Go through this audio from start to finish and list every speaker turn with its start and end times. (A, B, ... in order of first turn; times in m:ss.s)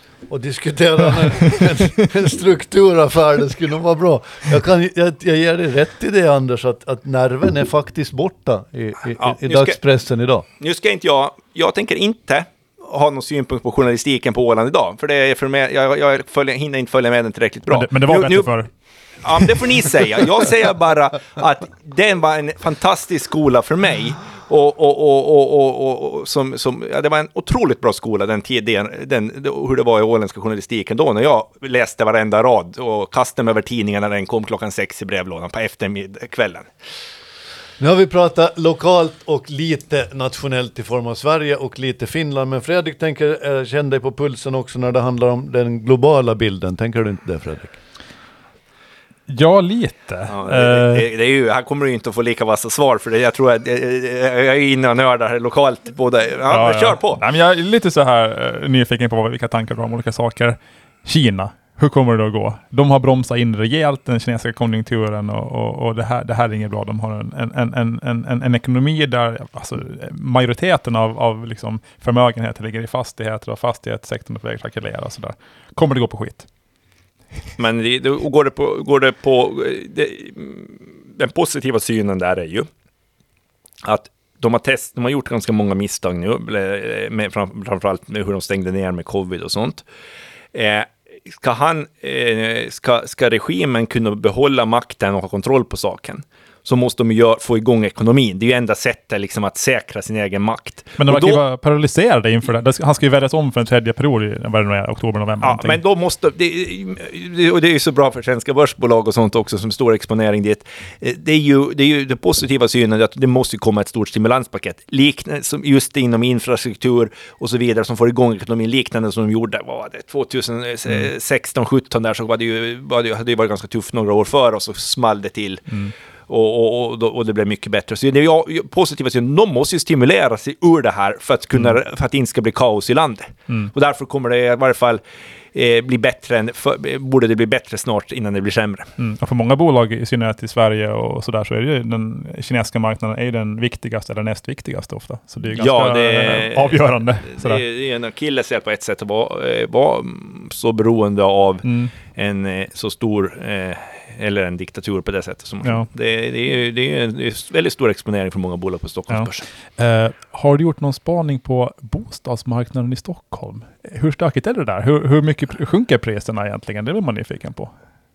0:00.3-0:10.4 A
0:01.4-0:01.8 B
0:09.2-0:09.8 C
0:10.6-0:18.6 C
0:17.7-0:18.7 B
0:19.2-0:36.7 C
0:37.8-0:47.8 A
0:49.3-0:51.0 B
0:50.3-0:57.2 C
0:56.5-1:16.5 B
1:17.6-1:22.7 C
1:23.8-1:29.8 C
1:30.5-1:41.4 C
1:41.0-1:45.8 B
1:45.4-2:05.7 C
2:06.3-2:15.0 C
2:15.5-2:18.9 C
2:19.0-2:27.6 B
2:25.5-2:39.4 C
2:31.6-2:31.9 B
2:39.1-2:47.7 B